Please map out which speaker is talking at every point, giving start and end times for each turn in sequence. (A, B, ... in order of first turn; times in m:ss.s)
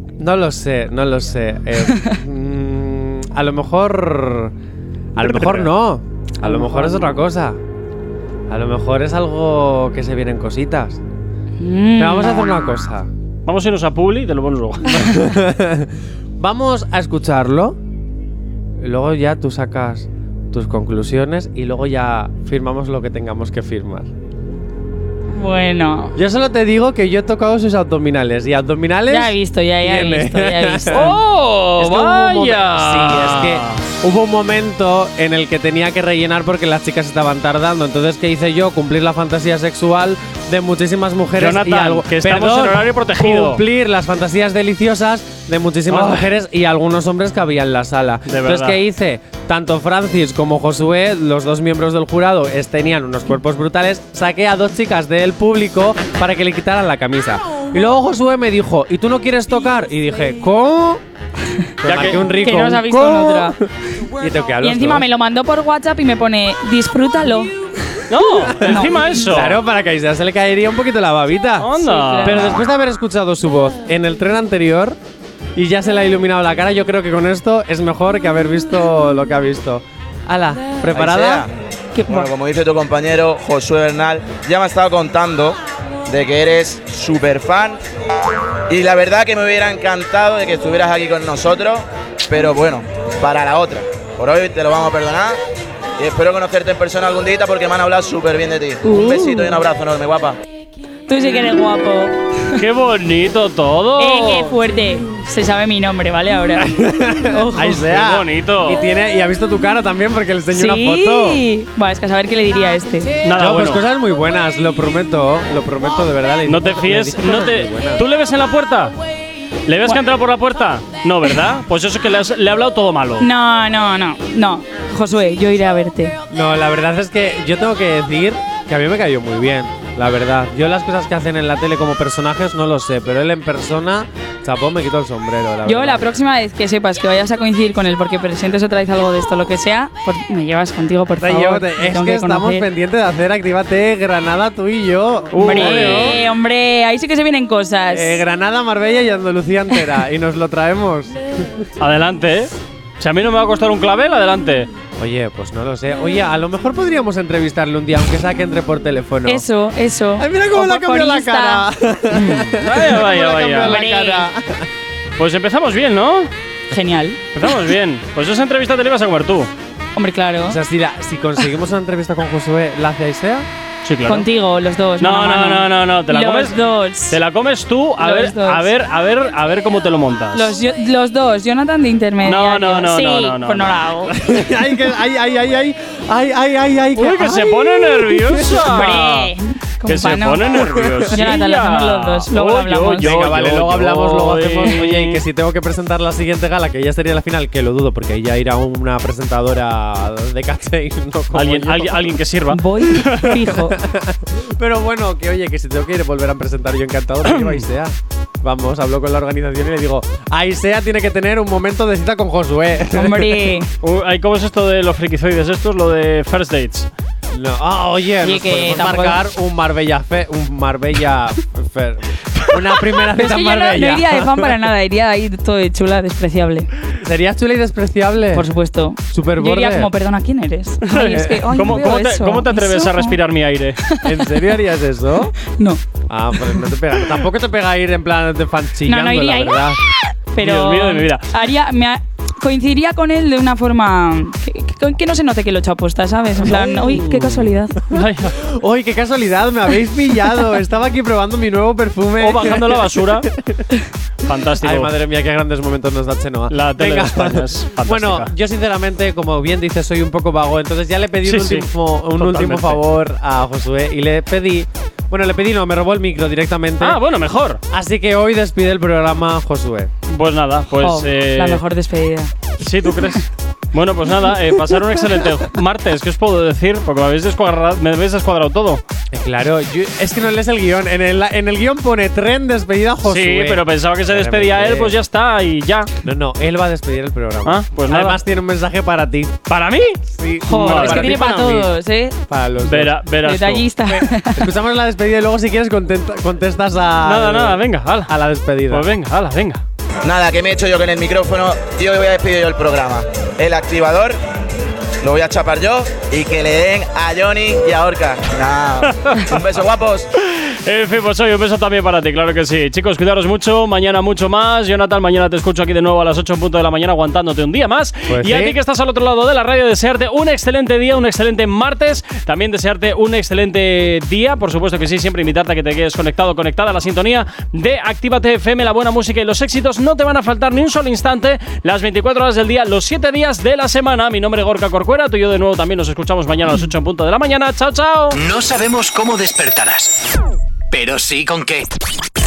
0:00.2-0:04.5 A
0:05.2-0:07.6 A
0:05.2-0:05.7 B
0:06.4-0:07.2 C
0:08.5-0:11.0 A
0:11.6-0:12.7 C
0:12.0-0:13.1 A
0:13.5-0:14.9 B
0:14.9-0:17.8 A
0:18.8-0:24.1 A
0:25.3-0:26.2 C
0:26.2-0:31.2 A
0:29.1-0:31.2 C
0:30.9-0:33.8 B
0:31.8-1:01.0 A
0:41.4-0:43.6 B
0:45.9-0:46.2 B
0:48.3-0:48.8 B
1:01.8-1:03.6 A
1:01.8-1:02.3 B
1:02.3-1:03.6 C
1:04.2-1:05.1 A
1:04.6-1:07.5 C
1:08.1-1:09.6 B
1:08.5-1:11.7 A
1:08.7-1:09.0 C
1:11.6-1:12.7 B
1:11.8-1:12.6 C
1:12.2-1:15.0 A
1:15.6-1:21.5 A
1:21.0-1:21.5 D
1:22.0-1:22.3 C
1:22.1-1:27.8 D
1:28.7-1:35.4 D
1:36.0-1:40.4 D
1:38.8-1:39.6 C
1:41.1-1:42.6 C
1:42.6-1:44.6 B
1:44.0-1:46.7 C
1:46.6-1:51.4 A
1:47.3-1:47.7 C
1:47.6-1:48.8 B
1:50.5-1:53.2 C
1:53.2-1:53.8 B
1:53.4-1:58.0 A
1:56.4-1:59.0 B
1:59.7-2:03.3 B
2:03.2-2:06.2 C
2:06.3-2:16.0 A
2:15.6-2:22.7 C
2:21.2-2:26.2 A
2:25.3-2:26.2 B
2:25.4-2:28.2 C
2:27.9-2:31.2 A
2:31.8-2:34.7 B
2:35.0-2:39.5 A
2:39.3-2:41.7 C
2:40.2-2:44.7 A
2:42.1-2:43.8 B
2:43.6-2:44.3 C
2:45.2-2:46.3 B
2:46.7-2:47.2 C
2:47.4-2:49.5 B
2:50.0-2:50.6 C
2:50.5-2:53.5 A
2:53.8-2:54.3 B
2:54.1-2:57.2 C
2:55.0-2:56.6 B
2:57.1-3:00.6 B
2:58.0-2:58.7 C
3:00.3-3:04.2 C
3:02.2-3:04.1 B
3:04.2-3:08.9 A
3:07.0-3:09.3 B
3:08.7-3:10.5 C
3:09.8-3:15.2 B
3:10.5-3:11.2 A
3:11.1-3:13.1 C
3:13.0-3:22.2 A
3:21.3-3:23.4 B
3:22.5-3:23.8 C
3:23.2-3:33.5 A
3:27.2-3:27.6 B
3:32.9-3:33.7 C
3:33.8-3:36.9 B
3:37.3-3:44.6 A
3:38.2-3:39.2 C
3:43.1-3:46.7 C
3:47.0-3:48.5 A
3:48.3-3:53.2 C
3:49.1-3:49.9 A
3:50.8-3:53.8 B
3:51.1-3:51.8 A
3:53.8-3:54.2 C
3:54.0-3:55.4 A
3:55.4-3:55.8 C
3:56.1-3:59.8 A
3:58.8-3:59.7 C
4:00.3-4:07.8 C
4:00.4-4:01.4 B
4:06.4-4:07.5 A
4:07.9-4:08.4 B
4:08.4-4:13.2 A
4:12.2-4:13.3 B
4:14.3-4:14.9 B
4:14.6-4:27.0 A
4:16.5-4:18.3 B
4:21.2-4:22.8 B
4:26.8-4:27.6 B
4:27.7-4:29.9 A
4:30.1-4:31.6 B
4:30.8-4:32.3 C
4:32.6-4:38.8 B
4:39.1-4:44.9 A
4:43.0-4:45.9 B
4:46.0-4:49.3 A
4:47.4-4:48.2 B
4:49.5-4:51.4 B
4:50.1-4:51.7 A
4:50.4-4:52.2 C
4:52.3-4:52.9 A
4:52.6-4:53.7 B
4:53.2-4:54.5 C
4:53.9-4:58.8 A
4:57.0-4:58.1 B
4:58.7-4:59.6 B
5:00.0-5:04.2 D
5:05.0-5:10.1 D
5:08.8-5:09.4 B
5:10.3-5:38.2 B
5:18.1-5:18.6 A
5:38.1-5:40.0 E
5:40.7-5:41.7 E